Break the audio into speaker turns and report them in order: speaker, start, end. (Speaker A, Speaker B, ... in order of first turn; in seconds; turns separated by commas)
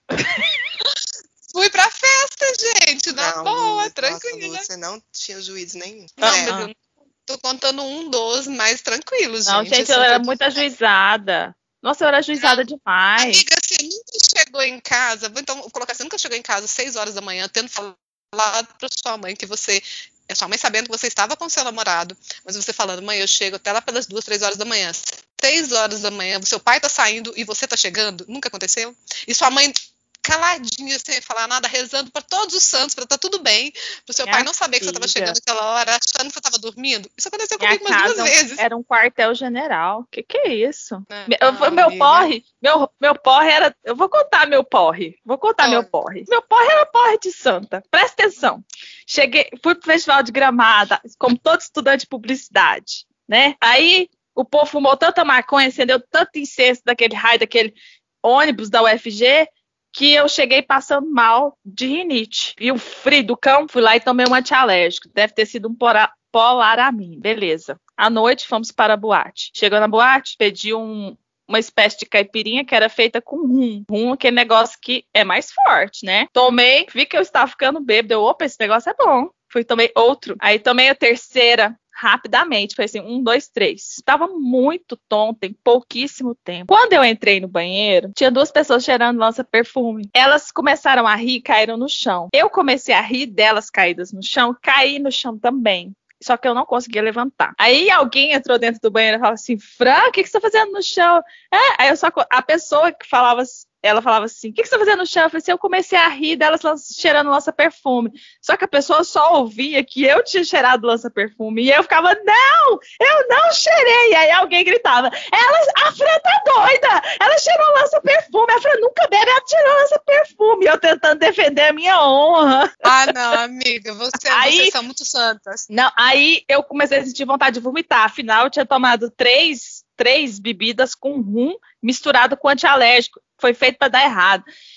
Speaker A: 1.5-4.7, Speaker B: 3.1-6.5, Speaker A: 6.2-10.6, Speaker C: 6.2-6.7, Speaker C: 9.5-13.4, Speaker A: 12.3-12.7, Speaker A: 13.2-38.6, Speaker C: 34.3-35.4, Speaker C: 37.6-122.8, Speaker A: 41.1-42.3, Speaker A: 45.6-45.9, Speaker A: 122.8-125.7, Speaker C: 124.3-124.7, Speaker C: 125.7-134.4